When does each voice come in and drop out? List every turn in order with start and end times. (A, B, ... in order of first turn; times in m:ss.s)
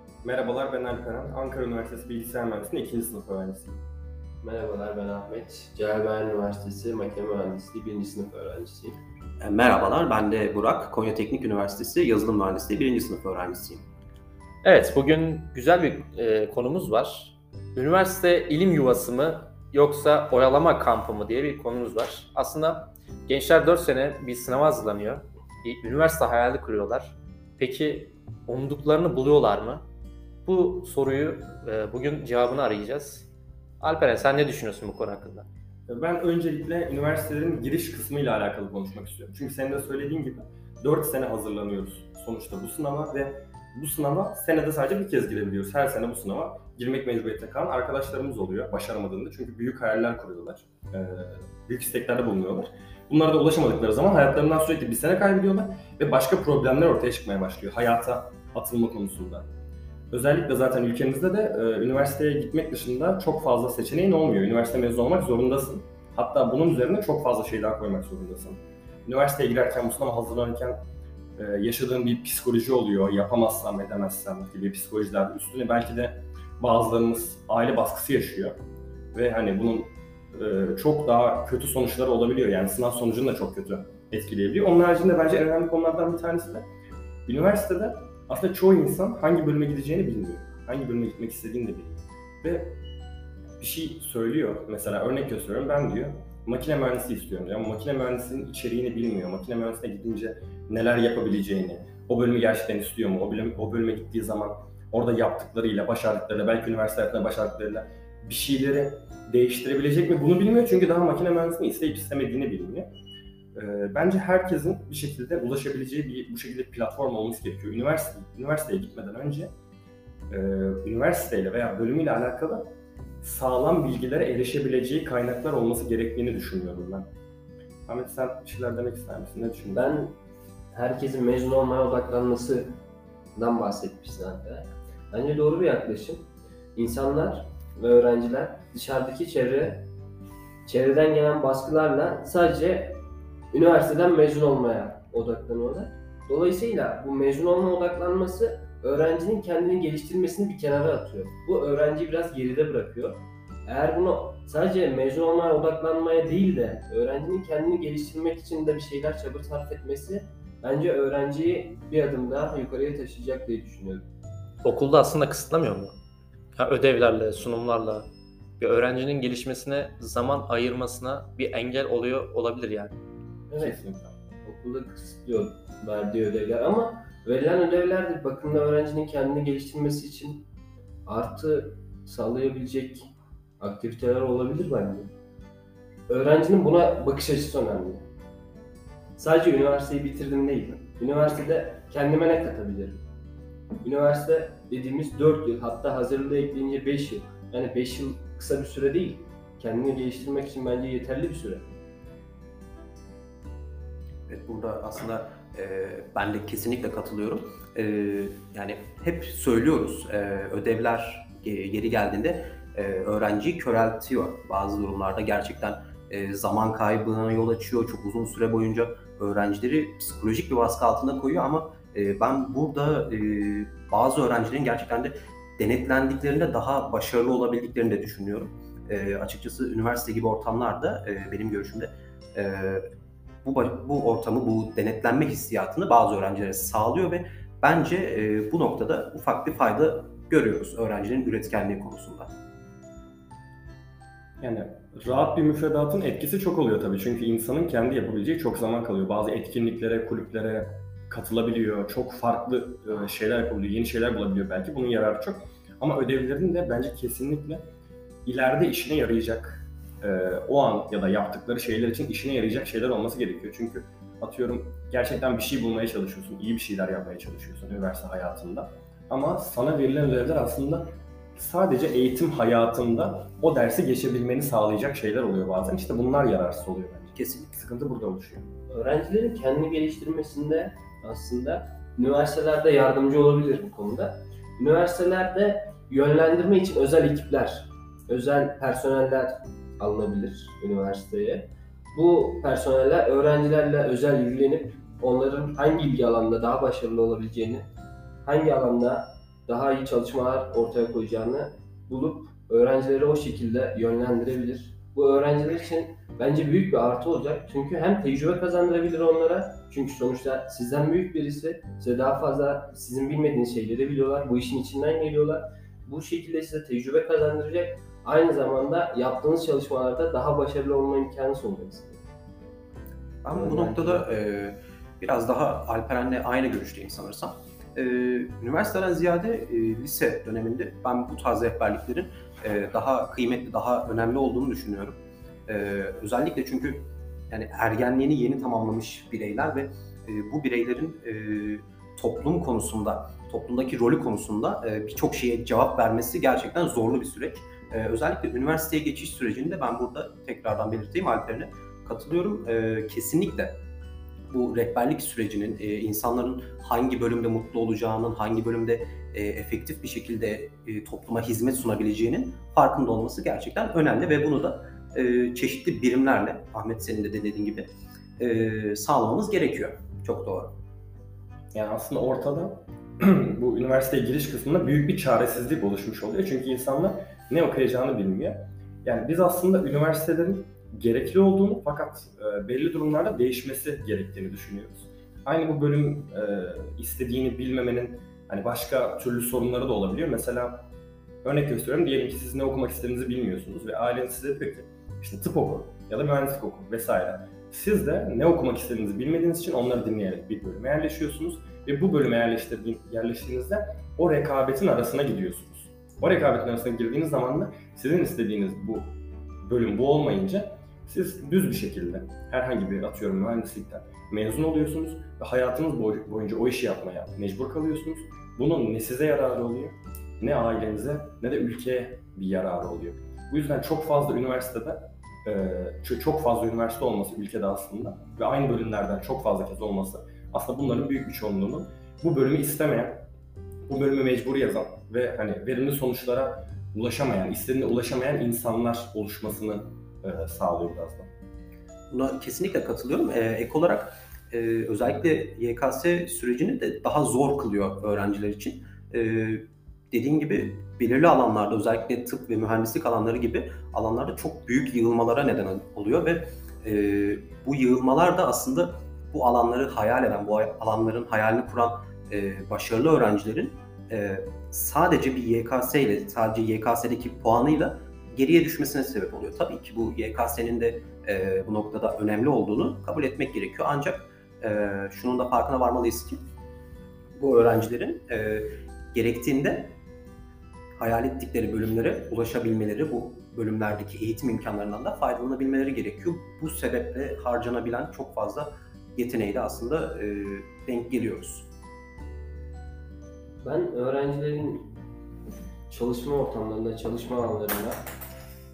0:00.2-0:03.8 A
0:04.4-0:09.0 B
0:09.4-0:13.8 C
0:14.6-0:29.8 D
0:30.4-0:33.3 D
0:33.8-0:35.5 D
0:35.9-0:59.5 A
1:00.1-1:10.8 A
1:11.4-1:18.6 A
1:19.1-1:26.7 A
1:27.3-1:32.8 A
1:33.6-1:52.9 A
1:53.6-1:59.5 A
2:00.3-2:02.7 A
2:03.2-2:07.1 A
2:07.9-2:10.0 A
2:09.7-2:10.2 B
2:10.7-2:12.8 B
2:13.4-2:19.9 B
2:20.7-2:44.1 B
2:44.6-2:46.0 D
2:46.6-2:48.1 D
2:48.6-2:53.0 D
2:53.5-2:53.8 B
2:53.6-2:54.1 A
2:54.4-3:00.5 B
3:01.1-3:05.1 B
3:06.1-3:08.0 B
3:09.2-3:13.0 B
3:13.8-3:21.7 B
3:24.3-3:52.8 C
3:53.4-4:02.3 C
4:04.4-4:17.6 A
4:18.3-4:38.4 A
4:37.2-4:37.5 C
4:38.7-4:57.7 B
4:58.2-5:22.0 B
5:23.2-5:53.6 C
5:23.3-5:24.1 B
5:54.3-6:10.5 C
6:11.5-6:30.6 A
6:31.2-7:13.0 A
7:13.7-7:21.1 A
7:21.9-7:56.2 C
7:57.2-7:59.8 C
8:00.8-8:11.5 C
8:13.4-8:14.7 B
8:15.7-8:17.8 B